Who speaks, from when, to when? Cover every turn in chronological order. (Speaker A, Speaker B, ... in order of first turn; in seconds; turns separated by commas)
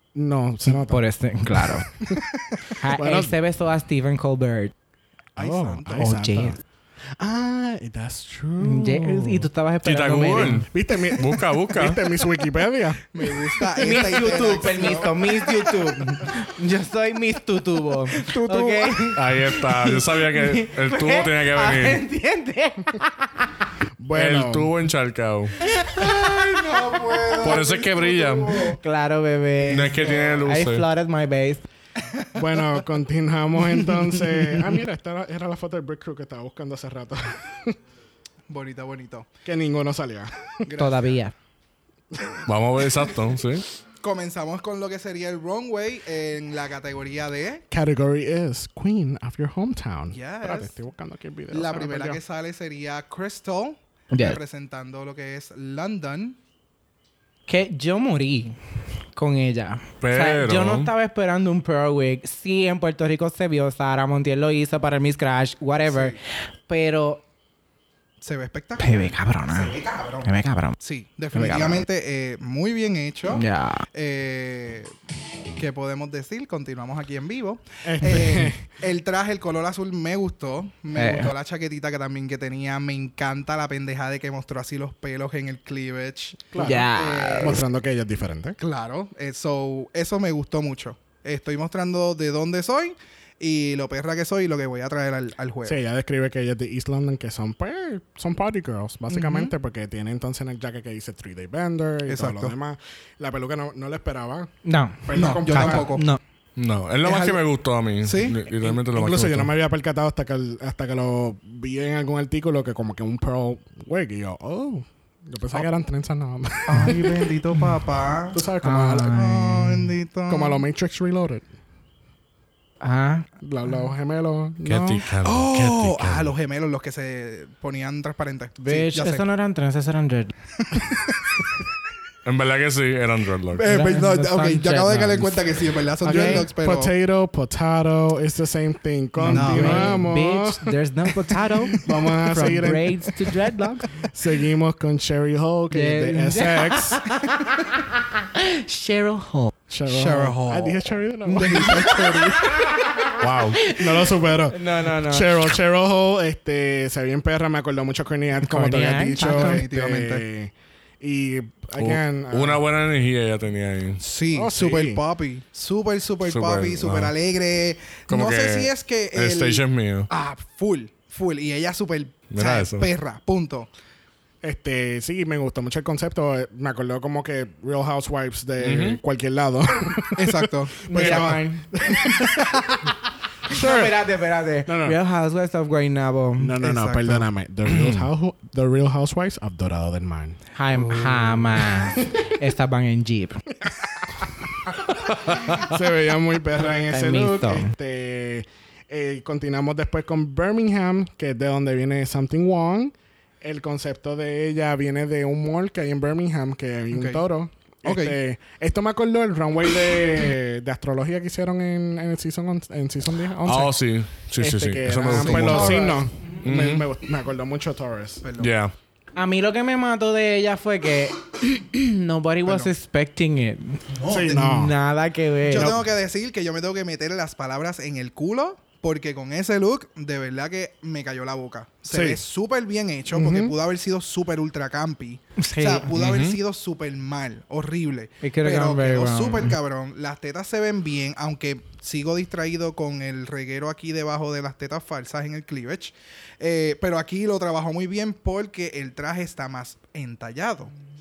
Speaker A: 0.1-1.0, Speaker B: 0.7-1.9, Speaker A: 1.6-2.2, Speaker B: 2.8-4.7, Speaker A: 2.9-3.3, Speaker A: 5.4-6.6, Speaker C: 5.4-6.1, Speaker B: 5.9-6.6, Speaker A: 7.2-9.5, Speaker B: 8.6-10.7, Speaker D: 9.8-12.0, Speaker A: 10.6-13.4, Speaker C: 13.1-15.7, Speaker B: 13.8-23.6, Speaker C: 18.1-19.1, Speaker D: 19.1-22.0, Speaker A: 24.0-24.7, Speaker D: 24.1-25.5, Speaker B: 25.6-27.3, Speaker C: 26.0-28.8, Speaker D: 27.4-28.7, Speaker B: 28.8-31.6, Speaker D: 29.7-30.8, Speaker C: 30.0-30.4, Speaker C: 32.0-32.8, Speaker A: 32.3-37.8, Speaker B: 33.8-34.6, Speaker C: 38.5-39.3, Speaker A: 39.4-40.6, Speaker C: 40.6-41.2, Speaker B: 40.8-41.3, Speaker A: 42.1-42.5, Speaker D: 42.5-43.7, Speaker C: 44.0-47.6, Speaker A: 47.7-52.2, Speaker C: 50.1-50.8, Speaker C: 51.5-56.4, Speaker B: 54.1-54.4, Speaker B: 57.5-58.6, Speaker B: 59.2-67.2, Speaker D: 60.0-60.9, Speaker C: 65.9-66.2, Speaker C: 68.2-74.9, Speaker B: 68.8-70.8, Speaker B: 71.3-71.8, Speaker B: 73.3-73.9, Speaker C: 75.6-87.6, Speaker A: 77.8-78.7, Speaker B: 81.0-81.3, Speaker A: 86.5-86.9, Speaker B: 86.6-87.6, Speaker A: 87.4-88.6, Speaker C: 88.6-95.8, Speaker A: 95.7-104.5, Speaker C: 99.1-99.5, Speaker C: 102.1-102.5, Speaker B: 104.7-106.2, Speaker A: 105.0-105.9, Speaker C: 105.2-106.1, Speaker D: 106.6-109.5, Speaker C: 107.0-107.4, Speaker C: 108.0-108.8, Speaker A: 108.9-117.3, Speaker C: 116.7-118.4, Speaker A: 118.3-119.2, Speaker B: 118.6-119.9, Speaker C: 119.0-120.6, Speaker A: 120.3-121.5, Speaker B: 122.8-123.3, Speaker A: 123.4-125.0, Speaker D: 124.7-126.3, Speaker C: 125.2-129.3, Speaker B: 128.6-130.3, Speaker C: 130.6-131.5, Speaker D: 132.2-133.7, Speaker C: 133.5-136.9, Speaker B: 133.7-136.5, Speaker A: 136.0-140.8, Speaker B: 139.2-143.9, Speaker C: 139.3-140.0, Speaker A: 141.7-143.4, Speaker A: 144.0-147.1, Speaker B: 145.7-149.5, Speaker A: 149.7-152.7, Speaker C: 149.9-152.6, Speaker B: 151.3-155.5, Speaker D: 153.2-153.6, Speaker A: 153.6-162.6, Speaker B: 158.4-159.6, Speaker C: 159.2-160.2, Speaker D: 161.8-164.0, Speaker C: 164.0-173.7, Speaker A: 164.3-165.0, Speaker D: 166.2-167.1, Speaker D: 168.1-170.1, Speaker D: 172.3-172.9, Speaker A: 174.4-182.4, Speaker D: 178.6-179.0, Speaker C: 180.2-181.4, Speaker B: 180.9-182.1, Speaker A: 183.5-183.9, Speaker B: 183.5-186.6, Speaker A: 184.7-185.0, Speaker A: 186.4-192.1, Speaker C: 186.6-187.3, Speaker D: 187.7-188.1, Speaker B: 190.6-193.4, Speaker A: 193.7-213.8, Speaker D: 195.1-195.7, Speaker B: 196.9-197.7, Speaker C: 206.9-207.2, Speaker C: 207.8-208.2, Speaker D: 213.4-215.9, Speaker A: 214.3-218.2, Speaker C: 215.2-216.0, Speaker D: 216.4-216.9, Speaker C: 218.2-218.5, Speaker D: 218.4-218.7, Speaker B: 219.2-225.8, Speaker C: 222.5-222.7, Speaker C: 223.9-224.5, Speaker A: 224.1-224.7, Speaker C: 225.5-250.7, Speaker A: 225.5-225.8, Speaker A: 231.9-232.2, Speaker A: 233.1-233.6, Speaker B: 235.4-235.9, Speaker D: 235.9-236.4, Speaker B: 238.2-239.6